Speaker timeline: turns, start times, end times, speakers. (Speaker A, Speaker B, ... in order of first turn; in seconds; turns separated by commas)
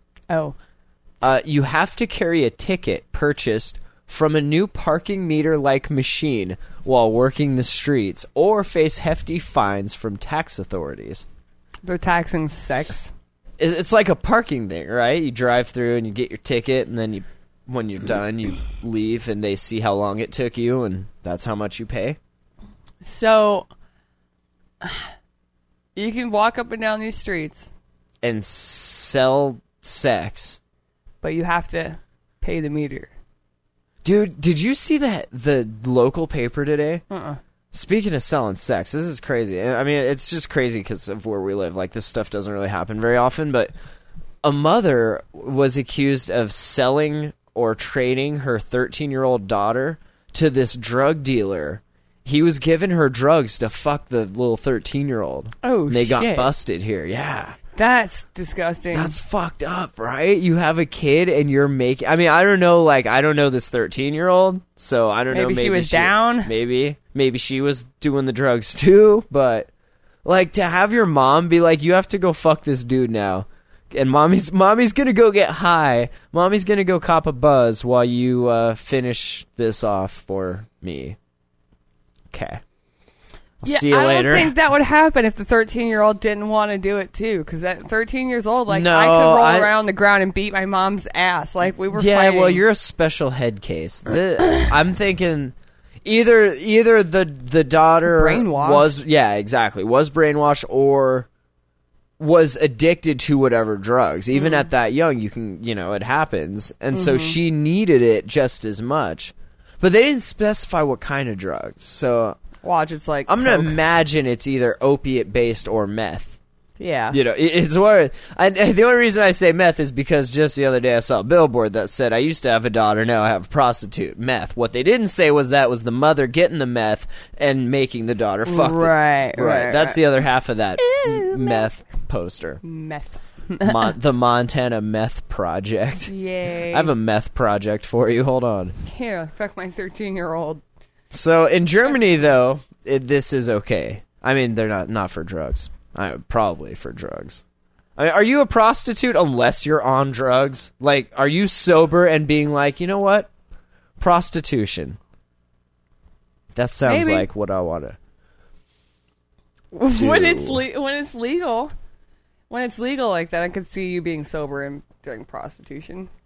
Speaker A: 0.3-0.5, Speaker B: 1.2-11.2, Speaker A: 11.8-13.1, Speaker B: 13.6-22.2, Speaker A: 23.0-23.7, Speaker A: 24.8-25.1, Speaker A: 25.9-27.7, Speaker B: 28.2-30.6, Speaker A: 31.2-33.1, Speaker B: 34.0-37.0, Speaker A: 37.1-37.4, Speaker B: 37.7-43.7, Speaker B: 44.4-57.6, Speaker A: 55.6-56.5, Speaker A: 57.7-59.1, Speaker B: 58.9-69.7, Speaker A: 65.3-66.5, Speaker B: 70.2-81.2, Speaker B: 82.3-82.6, Speaker B: 83.6-84.5, Speaker A: 83.6-92.6, Speaker B: 88.7-89.7, Speaker B: 91.9-101.3, Speaker A: 98.0-98.9, Speaker B: 102.2-112.4, Speaker A: 104.3-104.6, Speaker A: 106.9-107.3, Speaker A: 112.6-113.8, Speaker B: 113.3-116.4, Speaker A: 116.8-117.2, Speaker B: 117.1-132.6, Speaker A: 128.4-130.0, Speaker A: 130.8-131.7, Speaker A: 132.6-133.9, Speaker B: 133.6-136.1, Speaker A: 136.1-136.9, Speaker B: 136.7-138.8, Speaker A: 138.8-140.6, Speaker B: 141.1-147.4, Speaker B: 147.9-153.3, Speaker B: 154.0-155.0, Speaker B: 156.5-158.0, Speaker A: 156.8-157.3, Speaker A: 159.7-161.7, Speaker B: 159.9-160.6, Speaker A: 162.5-166.1